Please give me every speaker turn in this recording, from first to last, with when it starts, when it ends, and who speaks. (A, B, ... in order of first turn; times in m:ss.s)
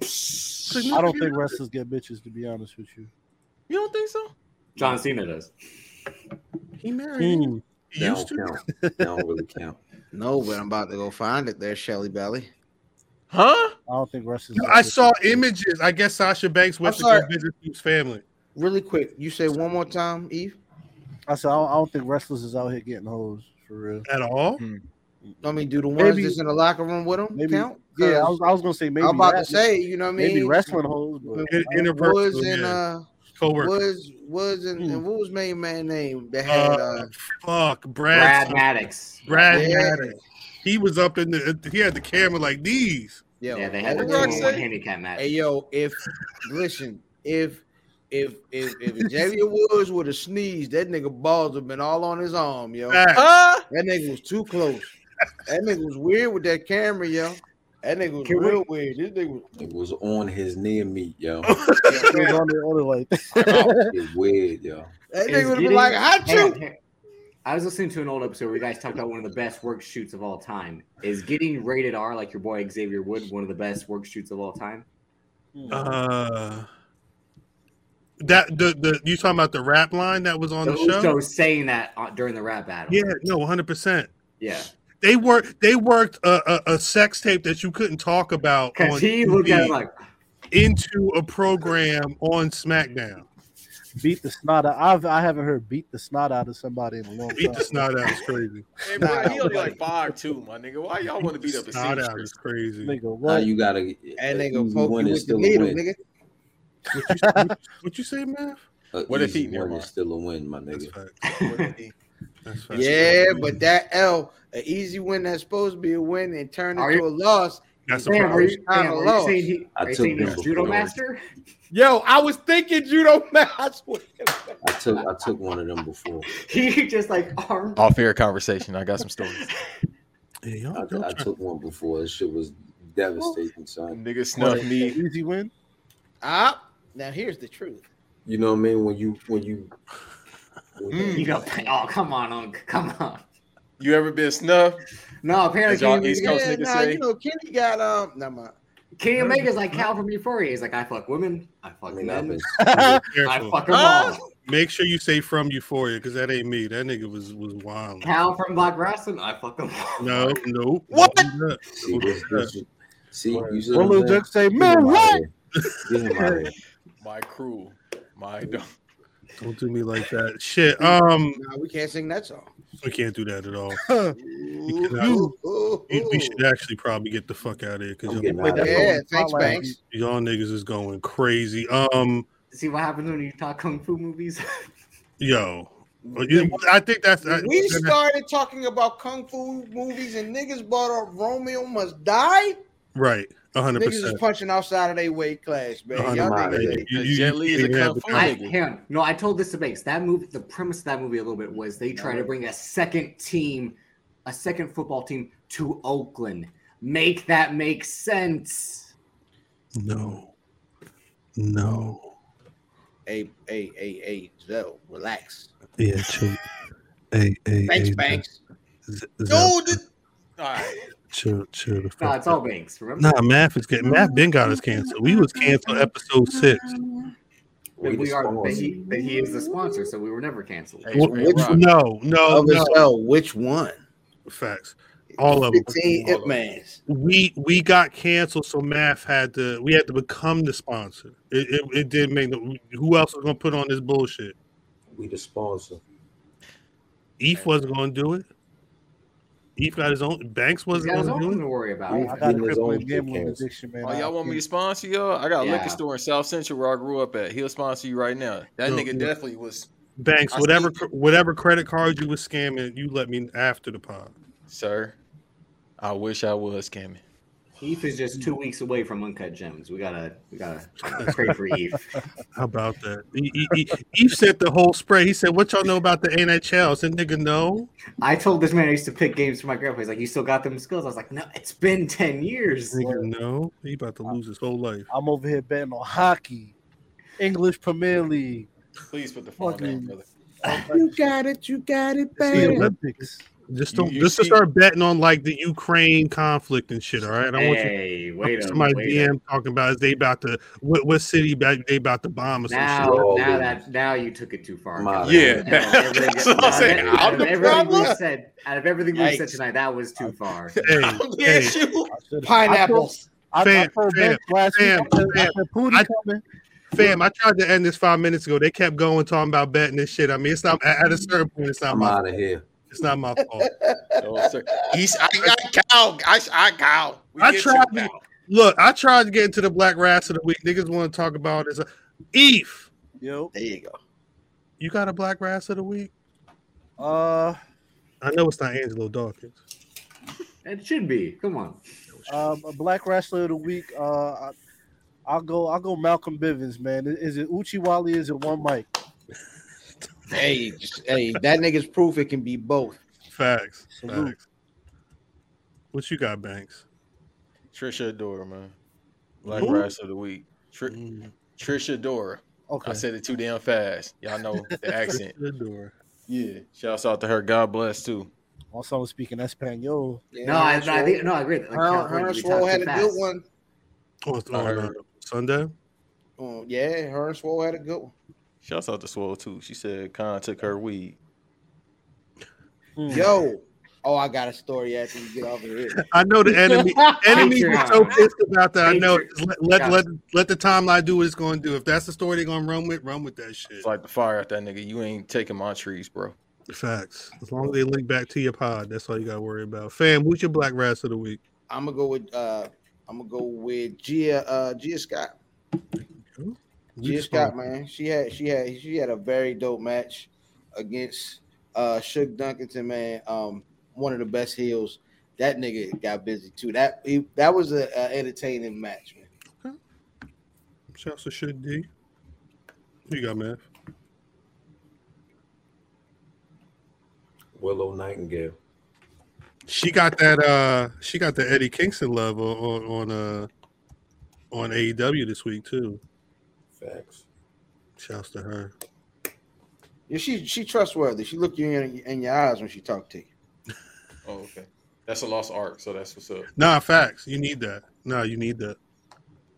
0:00.5-0:01.6 A
0:00.9-0:03.1 B
0:03.7-0:04.3 C
0:04.8-0:05.5 D
0:06.8-0:08.6 A
0:07.2-0:07.6 B
0:08.0-0:09.8 E
0:08.7-0:09.2 B
0:10.1-0:12.5 F
0:13.3-0:13.8 C
0:13.9-0:15.5 B
0:14.6-0:18.2 A
0:16.8-0:17.3 F
0:18.6-0:20.6 F
0:21.3-0:24.1 B
0:24.1-0:24.6 A
0:25.4-0:28.5 F
0:26.0-0:26.4 B
0:27.3-0:31.7 B
0:29.0-0:30.8 F
0:31.3-0:33.1 F
0:31.5-0:32.8 A
0:33.4-0:33.7 A
0:33.6-0:37.1 F
0:34.8-0:35.0 B
0:36.5-0:38.7 A
0:38.1-0:39.7 D
0:39.2-0:43.2 A
0:39.5-0:40.2 F
0:43.4-0:44.6 F
0:43.5-0:45.3 D
0:43.9-0:44.6 C
0:45.2-0:53.0 F
0:52.9-0:53.3 A
0:53.2-0:53.6 C
0:53.7-0:54.9 F
0:55.5-0:59.5 F
0:58.2-0:58.6 D
0:59.6-1:01.6 E
1:01.6-1:02.0 A
1:01.9-1:02.3 C
1:01.9-1:04.0 B
1:03.4-1:03.7 C
1:03.6-1:04.9 E
1:05.1-1:06.6 F
1:05.3-1:06.8 D
1:07.4-1:14.9 D
1:15.6-1:16.0 B
1:15.7-1:16.7 A
1:18.2-1:21.2 A
1:20.6-1:23.0 D
1:22.9-1:24.1 A
1:24.4-1:24.7 D
1:25.0-1:29.8 A
1:28.8-1:29.9 D
1:30.5-1:33.3 A
1:34.0-1:38.2 B
1:37.3-1:38.7 A
1:38.8-1:42.3 C
1:39.0-1:39.8 F
1:39.0-1:39.8 B
1:41.2-1:43.0 A
1:42.8-1:43.5 B
1:43.3-1:45.8 E
1:44.2-1:46.0 F
1:46.9-1:48.6 A
1:46.9-1:47.6 B
1:48.9-1:50.9 E
1:49.1-1:49.9 C
1:50.7-1:51.4 A
1:51.2-1:51.7 D
1:51.4-1:51.9 C
1:52.4-1:53.6 A
1:52.7-1:59.5 F
1:56.8-1:57.0 D
1:57.9-1:58.6 A
1:58.0-2:01.2 D
1:59.8-2:00.9 E
2:01.7-2:04.6 F
2:04.6-2:06.3 E
2:06.4-2:07.9 D
2:07.8-2:09.5 C
2:10.4-2:11.3 A
2:10.7-2:14.0 E
2:13.9-2:15.0 C
2:14.4-2:15.5 B
2:16.2-2:17.8 F
2:18.2-2:19.7 E
2:20.8-2:21.4 E
2:20.9-2:21.3 C
2:21.1-2:23.2 D
2:23.8-2:24.8 C
2:25.2-2:26.4 D
2:25.7-2:27.0 C
2:26.2-2:28.5 F
2:29.0-2:32.5 D
2:29.2-2:29.9 A
2:31.9-2:32.6 E
2:32.6-2:33.0 B
2:32.7-2:33.6 A
2:33.2-2:34.2 D
2:33.7-2:34.3 C
2:34.4-2:38.2 A
2:38.0-2:40.4 D
2:40.0-2:42.5 A
2:41.7-2:46.5 E
2:43.3-2:43.7 A
2:43.7-2:45.2 B
2:45.6-2:45.8 A
2:47.0-2:48.7 C
2:49.4-2:51.4 A
2:50.8-2:52.5 F
2:52.8-2:53.8 A
2:53.7-2:54.2 B
2:54.2-2:56.4 F
2:54.7-2:55.3 A
2:55.9-2:58.7 A
2:58.0-2:59.0 E
2:58.4-2:59.8 B
2:58.4-2:59.7 F
2:59.9-3:02.3 A
3:02.5-3:04.6 D
3:05.2-3:08.0 A
3:06.0-3:06.6 F
3:07.2-3:12.6 F
3:13.0-3:14.2 A
3:13.7-3:16.9 F
3:16.0-3:18.3 A
3:16.0-3:16.9 E
3:16.9-3:18.6 C
3:18.1-3:28.9 D
3:22.0-3:22.3 F
3:29.8-3:30.3 A
3:31.4-3:32.0 A
3:33.1-3:35.5 F
3:35.8-3:36.4 A
3:37.1-3:38.2 A
3:37.7-3:38.4 F
3:38.9-3:39.8 A
3:39.3-3:39.8 C
3:40.4-3:40.9 C
3:41.1-3:42.4 A
3:42.0-3:43.2 D
3:43.0-3:46.7 A
3:43.8-3:47.1 F
3:47.8-3:48.8 E
3:47.8-3:51.1 D
3:48.4-3:49.9 F
3:50.8-3:51.6 C
3:50.9-3:52.9 A
3:51.2-3:51.6 F
3:52.3-3:53.8 F
3:54.3-3:56.0 A
3:55.2-3:56.8 F
3:55.8-3:56.1 B
3:56.9-4:04.4 A
4:04.9-4:05.8 E
4:07.2-4:08.3 A
4:09.6-4:11.4 A
4:10.7-4:12.3 D
4:11.9-4:13.4 E
4:11.9-4:14.4 B
4:13.8-4:19.7 C
4:15.4-4:15.8 D
4:18.6-4:19.1 A
4:20.0-4:24.1 A
4:20.3-4:20.8 C
4:24.5-4:25.0 C
4:25.8-4:27.0 C
4:27.6-4:31.9 D
4:30.9-4:31.3 A
4:32.4-4:37.7 A
4:38.0-4:42.8 D
4:42.7-4:44.9 A
4:42.8-4:43.1 B
4:44.9-4:46.5 B
4:47.2-4:48.5 B
4:48.9-4:50.0 C
4:49.4-4:51.0 B
4:50.5-4:52.7 F
4:52.2-4:52.8 A
4:52.3-4:53.2 B
4:53.5-5:03.0 A
4:53.7-4:54.4 C
4:57.4-4:59.1 D
5:02.5-5:10.6 D
5:02.8-5:03.6 E
5:04.8-5:05.7 E
5:05.0-5:07.9 C
5:06.4-5:07.2 E
5:07.0-5:08.0 F
5:08.9-5:09.4 F
5:10.6-5:11.9 C
5:10.6-5:11.6 A
5:11.9-5:16.2 B
5:12.2-5:13.1 F
5:13.4-5:15.9 A
5:16.7-5:22.0 A
5:21.7-5:22.5 E
5:22.7-5:23.5 A
5:23.4-5:24.8 F
5:24.0-5:28.0 C
5:27.2-5:32.7 A
5:33.0-5:33.3 B
5:33.3-5:33.8 F
5:34.6-5:35.9 A
5:36.8-5:37.4 B
5:38.0-5:39.4 A
5:40.4-5:41.6 D
5:42.1-5:44.3 B
5:45.1-5:48.7 B
5:50.1-5:52.8 F
5:53.1-5:54.2 A
5:53.7-5:54.2 B
5:55.7-5:56.6 A
5:57.5-5:58.5 C
5:59.2-6:00.8 C
5:59.3-5:59.6 A
5:59.3-5:59.7 B
6:00.7-6:01.1 A
6:01.4-6:05.1 C
6:02.5-6:02.9 B
6:04.3-6:04.7 B
6:04.9-6:05.7 A
6:06.1-6:08.1 C
6:08.5-6:10.0 B
6:10.1-6:13.2 F
6:10.2-6:13.1 D
6:14.0-6:15.5 A
6:14.3-6:14.7 C
6:16.2-6:17.9 F
6:18.4-6:21.0 C
6:22.8-6:23.1 B
6:22.9-6:25.9 F
6:25.9-6:33.7 A
6:26.3-6:27.6 B
6:27.1-6:28.0 D
6:28.6-6:29.8 D
6:33.6-6:36.2 C
6:36.5-6:41.2 A
6:41.5-6:45.1 F
6:46.1-6:47.3 A
6:46.8-6:59.1 F
7:00.7-7:01.7 A
7:02.9-7:03.4 A
7:07.4-7:08.4 E
7:09.5-7:13.3 A
7:14.3-7:15.8 A
7:16.6-7:17.0 E
7:17.8-7:18.5 A
7:19.9-7:23.1 F
7:24.1-7:26.3 C
7:26.4-7:28.6 A